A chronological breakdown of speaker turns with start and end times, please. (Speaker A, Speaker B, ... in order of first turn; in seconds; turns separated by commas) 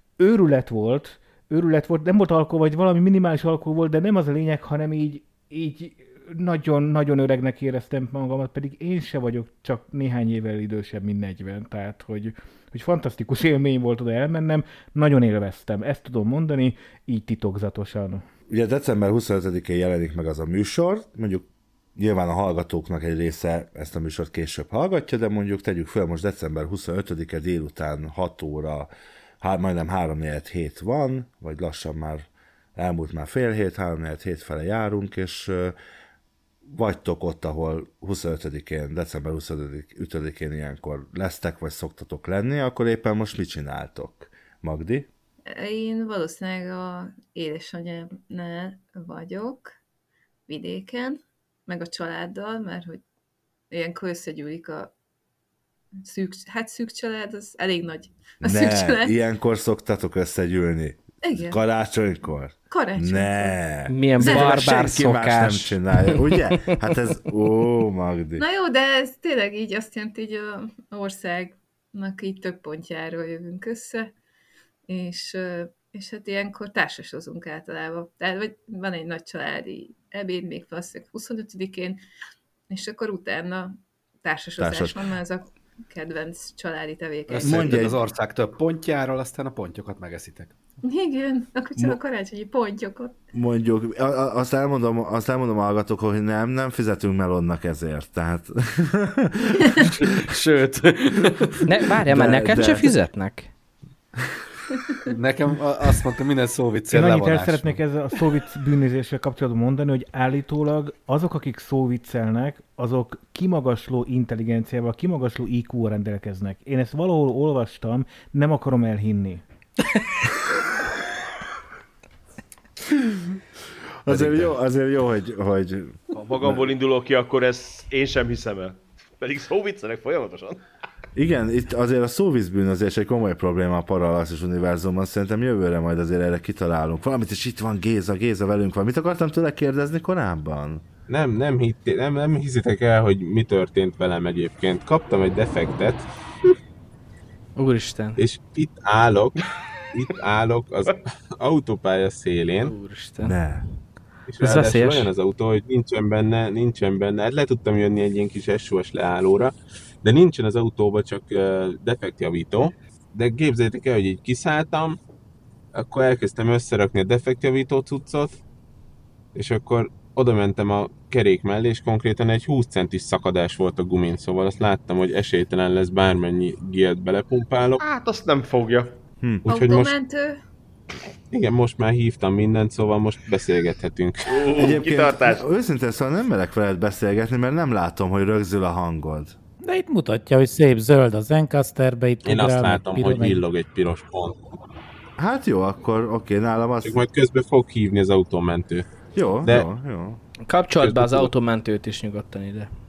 Speaker A: 0.2-18.2, Speaker B: 18.5-35.8, Speaker B: 36.6-45.1, Speaker C: 45.5-49.7, Speaker C: 50.5-53.0, Speaker C: 53.7-54.9, Speaker C: 56.0-59.1, Speaker B: 58.4-68.4, Speaker C: 61.2-61.6, Speaker C: 62.7-63.6, Speaker D: 63.9-66.7, Speaker C: 64.2-64.5, Speaker C: 68.4-74.1, Speaker C: 74.9-82.0, Speaker C: 82.7-87.8, Speaker B: 84.6-85.0, Speaker E: 87.3-90.5, Speaker B: 87.4-88.0, Speaker C: 90.8-93.1, Speaker B: 93.3-100.1, Speaker E: 100.1-101.5, Speaker D: 101.6-103.5, Speaker B: 102.1-102.9, Speaker E: 105.1-107.7, Speaker A: 106.9-119.4, Speaker B: 124.0-126.0, Speaker E: 124.1-124.5, Speaker F: 126.2-130.6, Speaker B: 131.1-140.8, Speaker G: 141.1-146.1, Speaker D: 147.6-148.2, Speaker G: 148.2-152.7, Speaker D: 152.6-153.4, Speaker B: 153.2-153.6, Speaker G: 154.3-165.0, Speaker D: 154.4-155.1, Speaker G: 165.7-168.4, Speaker G: 169.3-177.8, Speaker F: 177.8-179.0, Speaker G: 179.4-179.9, Speaker C: 179.5-180.4, Speaker G: 181.3-184.4, Speaker F: 184.3-185.4, Speaker B: 184.6-189.3, Speaker H: 189.6-193.4, Speaker G: 192.2-194.4, Speaker B: 195.2-197.0, Speaker G: 196.8-198.8, Speaker B: 199.1-200.2, Speaker D: 200.5-202.7, Speaker G: 200.8-201.3